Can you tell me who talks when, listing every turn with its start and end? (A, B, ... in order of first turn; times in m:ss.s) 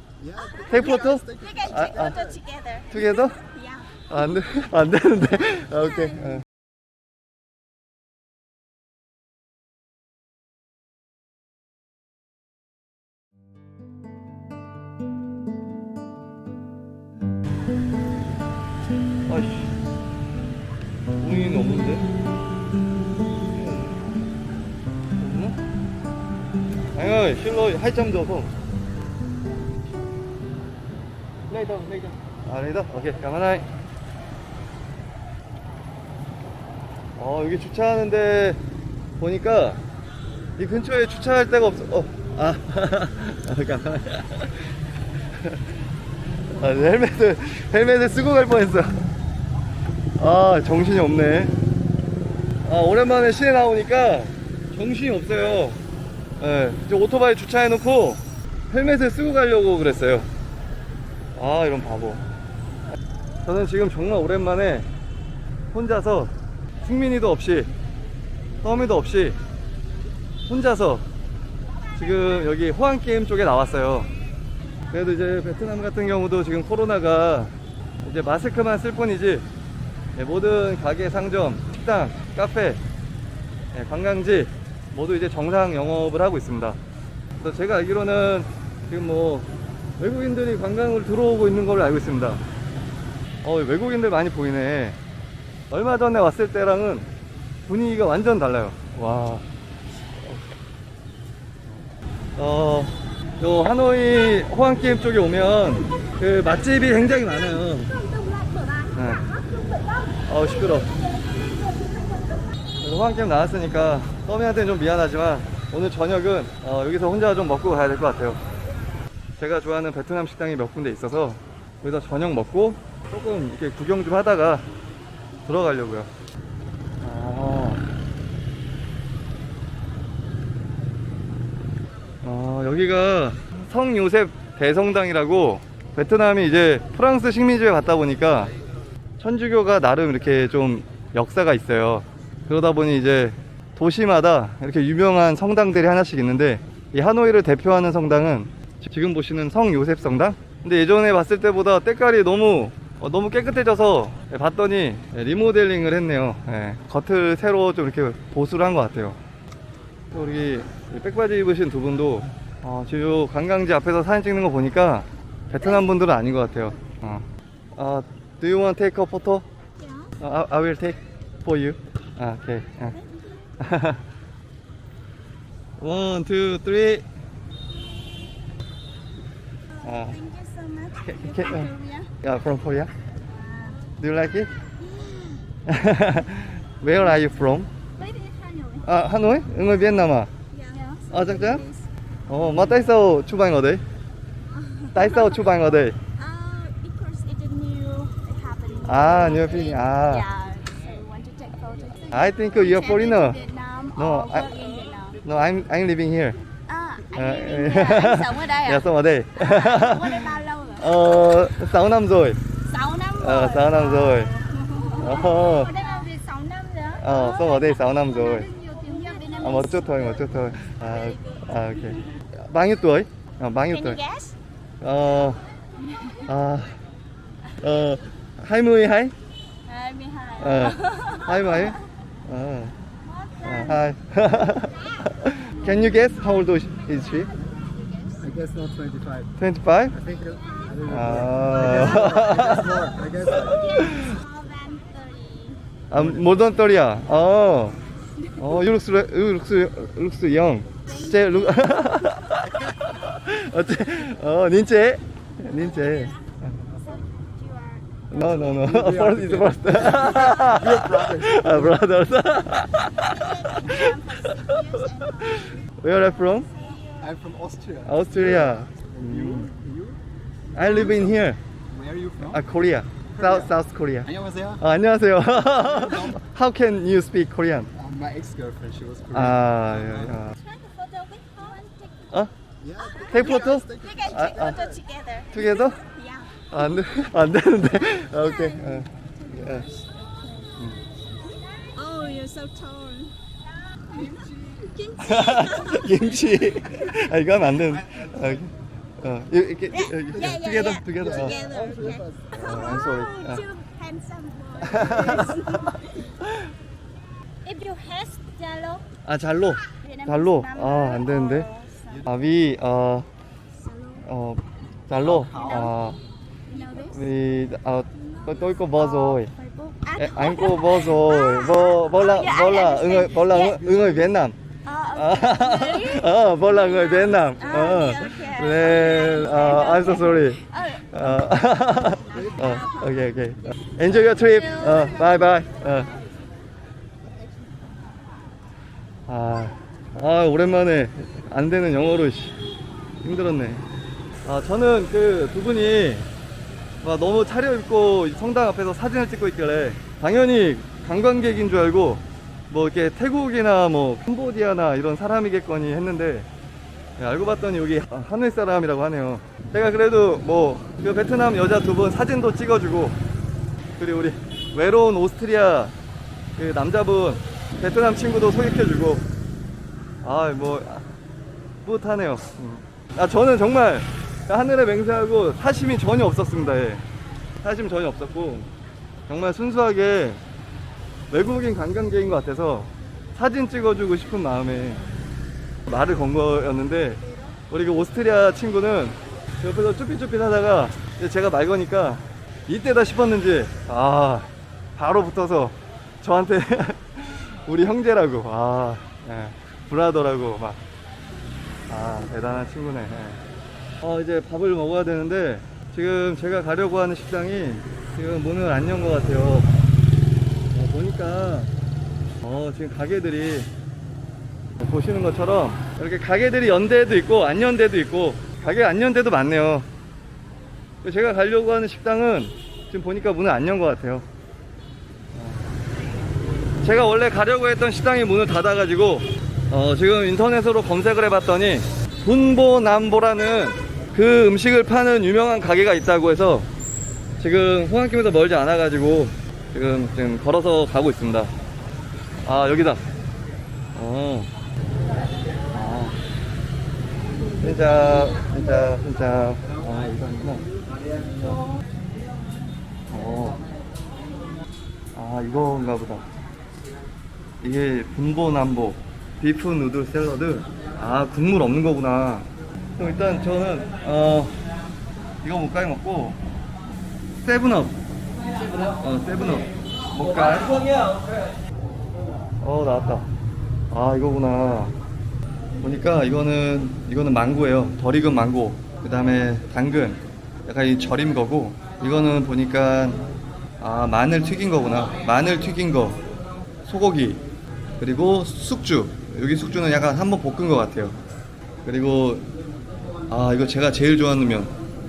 0:00.2-0:02.1 A
0:00.4-0:04.0 B
0:00.7-0:02.2 C
0:02.9-0:03.4 C
0:04.1-0:06.4 C
0:05.7-0:06.2 B
0:19.3-0:19.8 C
0:21.2-0:22.1 C
0:25.2-0:25.6 C
0:27.0-0:28.5 C
0:31.5-0:32.1 A
0:32.4-0:33.7 C
0:37.2-0:38.6 C
0:39.2-0:39.8 C
0:40.6-0:45.8 C
0:46.5-0:49.0 C
0:50.2-0:51.5 C
0:52.6-0:55.8 C
0:56.4-1:00.3 C
1:01.4-1:02.2 C
1:03.4-1:04.9 C
1:05.7-1:07.7 C
1:08.6-1:09.4 C
1:10.5-1:11.0 C
1:12.0-1:14.1 C
1:14.9-1:17.5 C
1:18.0-1:19.5 C
1:20.2-1:22.8 C
1:23.7-1:26.8 C
1:27.4-1:32.4 C
1:33.4-1:35.0 C
1:35.7-1:37.1 C
1:37.7-1:39.4 C
1:40.2-1:40.4 C
1:42.4-1:48.0 C
1:47.9-1:51.0 B
1:49.0-1:49.3 C
1:50.3-1:51.0 C
1:51.8-1:52.2 B
1:52.8-1:58.4 C
1:59.4-2:04.7 C
2:05.4-2:06.1 C
2:07.0-2:07.8 C
2:12.2-2:18.5 C
2:19.2-2:39.2 C
2:40.1-2:49.4 C
2:49.8-2:50.2 B
2:50.2-2:53.0 C
2:52.9-2:53.5 B
2:53.6-2:54.0 C
2:55.8-2:57.0 C
2:59.7-3:02.1 B
2:59.8-3:00.2 C
3:01.0-3:02.9 C
3:03.3-3:03.9 B
3:04.0-3:04.5 C
3:04.8-3:05.4 B
3:05.7-3:07.7 C
3:08.0-3:11.9 B
3:08.8-3:10.3 C
3:11.1-3:11.7 C
3:12.3-3:13.8 C
3:14.5-3:25.2 B
3:14.9-3:16.0 C
3:18.9-3:20.3 C
3:22.1-3:23.4 C
3:24.0-3:24.5 C
3:25.2-3:26.4 C
3:26.7-3:28.8 B
3:27.1-3:32.4 C
3:29.4-3:31.0 B
3:32.6-3:42.0 B
3:33.2-3:34.3 C
3:35.0-3:35.8 C
3:37.0-3:38.5 C
3:39.4-3:44.0 C
3:43.7-3:44.4 B
3:44.8-3:45.4 C
3:45.8-3:46.3 B
3:46.3-3:46.8 C
3:47.6-3:49.1 C
3:49.6-3:51.8 B
3:50.4-3:52.8 C
3:53.0-3:53.8 B
3:53.4-3:57.3 C
3:55.6-3:58.5 B
3:58.2-3:59.3 A
3:59.4-4:00.0 C
4:00.0-4:03.7 A
4:00.0-4:00.9 B
4:00.9-4:04.2 C
4:02.7-4:05.6 B
4:05.9-4:07.8 C
4:08.1-4:08.5 B
4:08.4-4:16.2 C
4:10.9-4:11.9 B
4:15.5-4:18.6 B
4:18.1-4:26.5 C
4:18.7-4:21.8 A
4:19.9-4:20.6 B
4:22.9-4:27.1 B
4:27.0-4:30.0 A
4:27.8-4:29.5 C
4:30.6-4:31.4 C
4:30.6-4:31.1 A
4:31.7-4:32.4 A
4:32.2-4:37.7 C
4:33.2-4:33.4 A
4:34.1-4:34.6 A
4:35.7-4:36.2 A
4:37.8-4:40.2 A
4:39.1-4:40.4 C
4:40.3-4:42.2 B
4:42.6-4:44.8 A
4:42.8-4:46.5 B
4:43.1-4:44.6 C
4:45.3-4:45.8 C
4:46.5-4:49.7 C
4:47.8-4:50.7 B
4:51.6-4:53.2 B
4:53.8-4:56.9 B
4:54.0-4:54.6 A
4:55.0-5:03.4 C
4:59.7-5:05.9 B
5:01.0-5:02.6 A
5:04.6-5:05.6 C
5:07.4-5:08.9 B
5:09.0-5:11.5 C
5:09.8-5:12.1 B
5:12.0-5:13.1 C
5:13.6-5:14.1 B
5:14.0-5:16.0 C
5:15.2-5:15.7 A
5:15.3-5:15.8 B
5:16.5-5:17.1 B
5:16.5-5:19.3 C
5:18.0-5:23.8 B
5:20.0-5:24.4 C
5:24.6-5:36.1 B
5:24.9-5:35.9 C
5:39.1-5:42.4 C
5:43.0-5:43.6 C
5:44.2-5:46.1 C
5:46.8-5:56.3 C
5:57.0-6:03.0 C
6:03.8-6:05.7 C
6:06.4-6:09.1 C
6:10.0-6:10.8 C
6:11.6-6:16.8 C
6:17.4-6:18.5 C
6:19.1-6:20.2 C
6:21.1-6:24.9 C
6:25.7-6:40.6 C
6:41.7-6:43.2 C
6:43.8-6:49.5 C
6:50.5-6:51.5 C
6:52.2-6:53.5 C
6:54.6-6:59.7 C
7:00.8-7:04.0 C
7:05.1-7:05.4 C
7:06.6-7:16.5 C
7:17.2-7:21.3 C
7:22.2-7:22.8 C
7:23.8-7:24.3 C
7:25.5-7:26.0 C
7:27.4-7:30.5 C
7:32.9-7:33.4 C
7:34.9-7:36.1 C
7:37.4-7:44.3 C
7:45.2-7:46.2 C
7:47.2-7:47.8 C
7:48.8-7:50.8 C
7:52.4-7:53.1 C
7:53.7-7:54.7 C
7:55.6-8:03.0 C
8:03.6-8:06.0 C
8:06.6-8:07.2 C
8:07.8-8:11.0 C
8:11.6-8:12.3 C
8:13.1-8:14.6 C